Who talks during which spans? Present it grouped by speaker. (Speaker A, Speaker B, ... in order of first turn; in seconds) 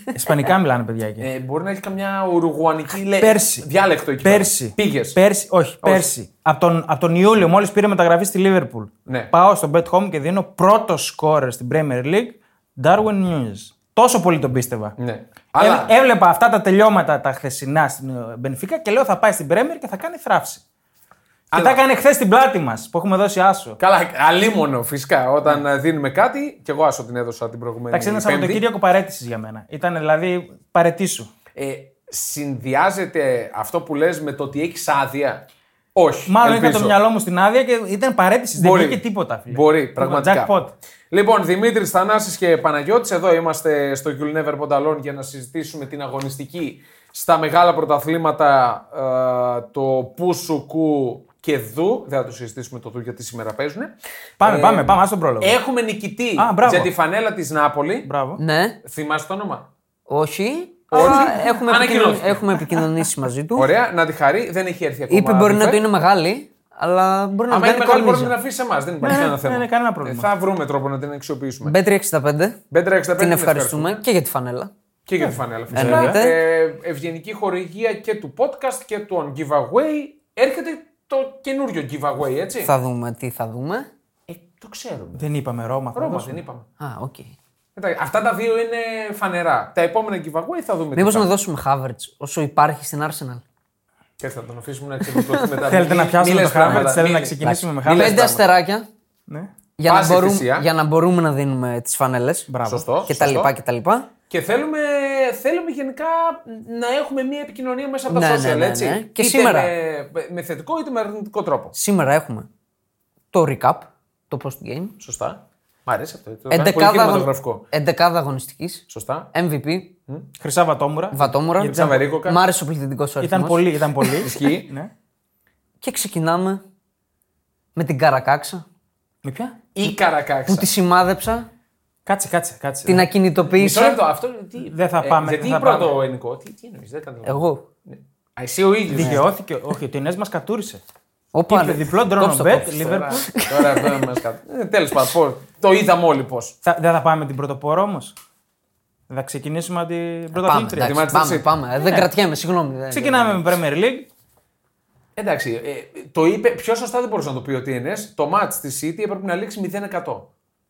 Speaker A: 0.1-1.3, 3.1-3.7, 4.2-15.0, 15.6-20.6, 21.5-23.8, 27.9-31.3, 36.3-40.7, 54.4-55.6, 56.4-56.9, 58.0-58.4, 60.9-61.6, 69.0-70.3, 75.2-76.2, 85.2-86.4, 95.6-98.2, 102.5-102.9, 120.4-122.0, 123.2-124.9, 129.2-129.6, 132.1-133.1, 134.6-136.0, 138.9-140.8, 141.5-143.2, 146.7-148.2, 149.1-150.9, 151.8-152.1, 152.9-154.1
Speaker B: 1.2-5.2, 5.8-6.1, 15.0-15.9, 21.5-21.8, 23.8-28.6, 31.6-35.4, 36.0-37.0, 38.6-40.5, 41.1-58.1, 58.8-59.7, 60.9-62.9, 63.5-65.8, 67.5-71.8, 72.7-74.0, 75.1-82.7, 84.3-85.3, 86.0-86.7, 87.8-91.3, 94.2-98.5, 99.9-100.7, 102.7-103.5, 104.3-111.8, 115.0-117.7, 118.9-119.3, 121.6-122.4, 124.2-124.7, 129.8-130.7, 133.6-139.2, 142.5-146.6, 150.8-151.6, 155.2-160.3
Speaker C: 58.4-58.8, 60.1-63.7, 65.1-68.4, 71.6-72.6, 73.2-74.7, 75.7-76.4, 82.6-83.9, 86.8-87.3, 91.0-93.4, 95.1-95.5, 97.4-98.9, 99.8-102.5, 103.0-104.1, 108.1-109.7, 111.7-112.5, 113.3-115.0, 116.5-119.9, 121.1-124.2, 125.8-126.6, 127.8-128.7, 130.5-131.5, 132.9-134.0, 137.2-137.6, 141.3-144.2, 150.3-153.4